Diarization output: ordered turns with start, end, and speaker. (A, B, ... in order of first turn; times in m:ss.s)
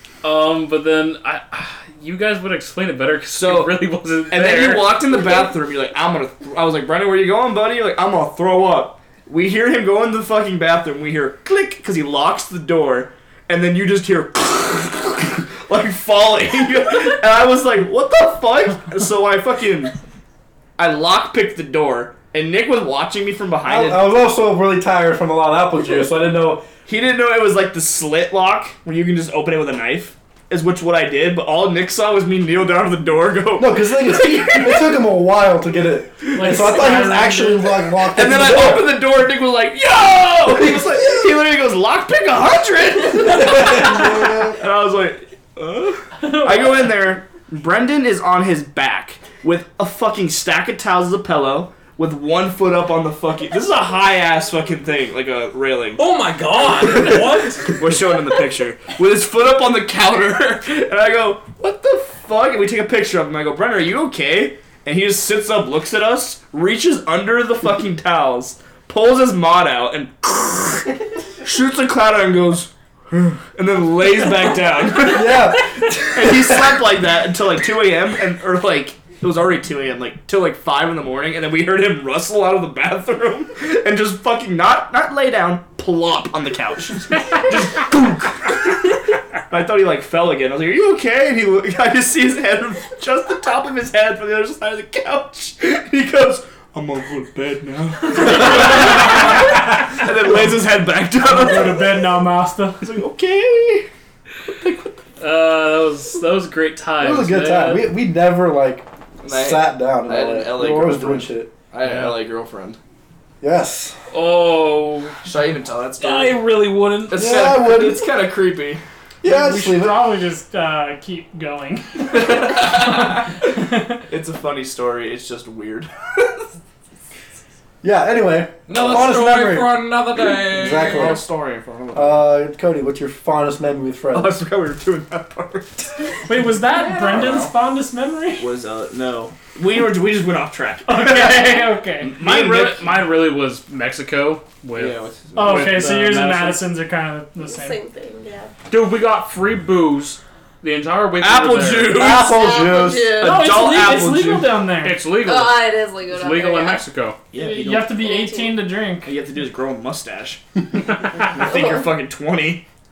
0:00.2-0:05.0 A
0:03.3-0:03.8 B
0:04.3-0:19.9 B
0:20.8-0:24.1 B
0:23.6-0:26.7 C
0:26.9-0:35.0 B
0:33.6-0:39.0 C
0:36.2-0:36.9 B
0:36.3-0:37.8 D
0:38.1-0:56.0 B
0:40.5-0:41.2 C
0:43.3-0:44.5 C
0:46.2-0:46.9 D
0:56.0-0:57.8 E
0:57.7-1:12.7 B
1:13.5-1:15.5 B
1:15.0-1:16.8 C
1:16.1-1:42.0 B
1:41.2-1:42.9 D
1:42.8-1:43.9 B
1:44.4-1:45.0 B
1:45.2-1:47.9 A
1:47.0-1:51.5 C
1:49.2-1:52.8 B
1:53.4-1:54.0 C
1:54.1-1:55.2 A
1:55.2-1:56.5 B
1:56.0-1:57.2 A
1:57.1-1:58.8 B
1:57.1-1:58.1 C
1:59.2-2:00.2 C
1:59.2-2:02.8 D
2:02.1-2:06.4 B
2:03.5-2:04.0 D
2:07.8-2:11.2 C
2:08.7-2:11.2 E
2:10.7-2:12.3 B
2:11.9-2:14.4 C
2:14.1-2:16.1 B
2:16.3-2:18.5 D
2:16.9-2:17.5 E
2:18.4-2:23.0 B
2:20.9-2:22.2 D
2:22.2-2:26.7 A
2:24.8-2:26.0 B
2:25.4-2:27.8 D
2:27.4-2:28.5 F
2:28.7-2:32.0 A
2:31.2-2:34.6 B
2:31.9-2:33.1 C
2:32.0-2:33.7 F
2:33.2-2:35.0 D
2:34.8-2:37.2 A
2:35.1-2:36.8 F
2:37.3-2:38.0 B
2:37.3-2:39.1 D
2:38.0-2:38.6 F
2:39.0-2:40.4 B
2:41.2-2:42.7 B
2:41.4-2:41.9 F